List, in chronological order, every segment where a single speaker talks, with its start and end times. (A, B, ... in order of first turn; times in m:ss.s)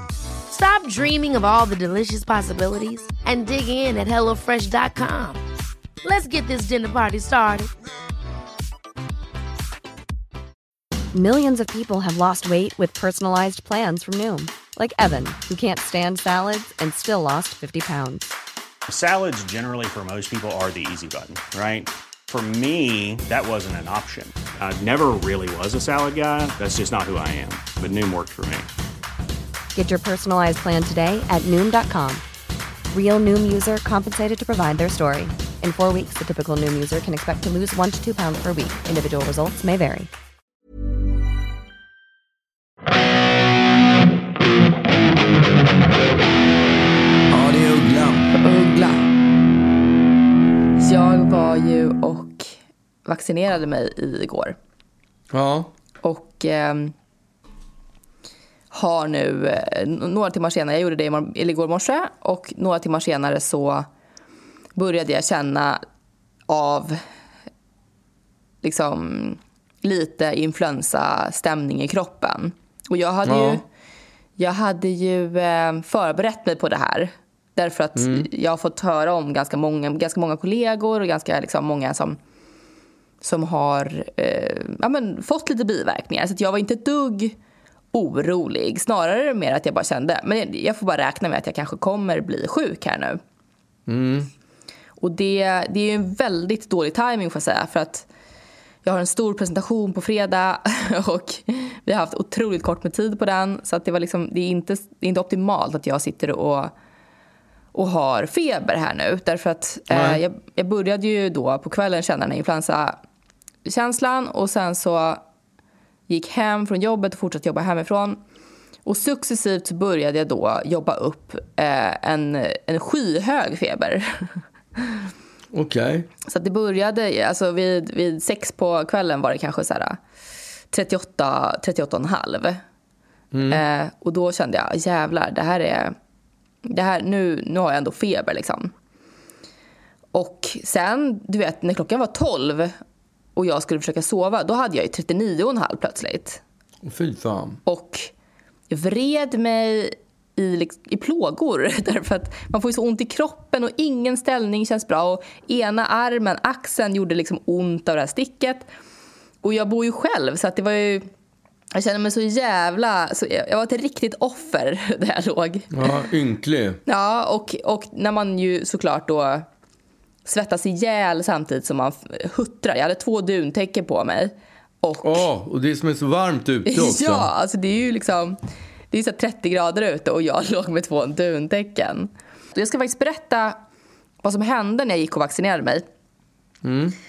0:00.5-0:05.4 A
0:06.0-0:07.7 A
0:11.1-0:18.3 B
0:18.9-0:28.7 C
0:29.7-0:32.2 B
0:32.9-0:40.1 B
0:47.3-0:48.3 D
0:48.4-0:49.0 E
0:50.8-0:52.5 E
0:53.0-0:54.5 E
0:55.3-0:55.7 D
0:56.0-0:56.9 E
0:58.7-1:03.9 E
1:04.8-1:05.8 E
1:06.5-1:07.0 E
1:08.6-1:13.6 E
1:13.2-1:13.6 D
1:14.4-1:22.2 E
1:17.9-1:18.3 D
1:23.2-1:27.3 E
1:27.9-1:33.2 E
1:33.9-1:34.3 D
1:35.0-1:38.1 E
1:38.8-1:46.7 E
1:47.7-1:53.0 E
1:49.9-1:50.2 D
1:53.6-1:55.2 E
1:56.1-1:58.2 E
1:58.8-2:05.0 E
2:05.5-2:06.1 D
2:06.3-2:10.0 E
2:10.7-2:12.6 E
2:13.3-2:13.6 D
2:13.5-2:15.9 E
2:16.7-2:18.7 E
2:20.1-2:22.7 E
2:23.4-2:26.4 E
2:26.8-2:27.6 D
2:27.6-2:28.1 E
2:28.7-2:38.7 E
2:39.4-2:41.1 E
2:41.7-2:46.0 E
2:45.7-2:46.8 D
2:46.8-2:49.4 E
2:50.2-2:55.2 E
2:55.0-2:57.3 D
2:56.6-2:58.4 E
2:58.9-3:03.6 E
3:04.2-3:05.8 E
3:06.6-3:07.0 D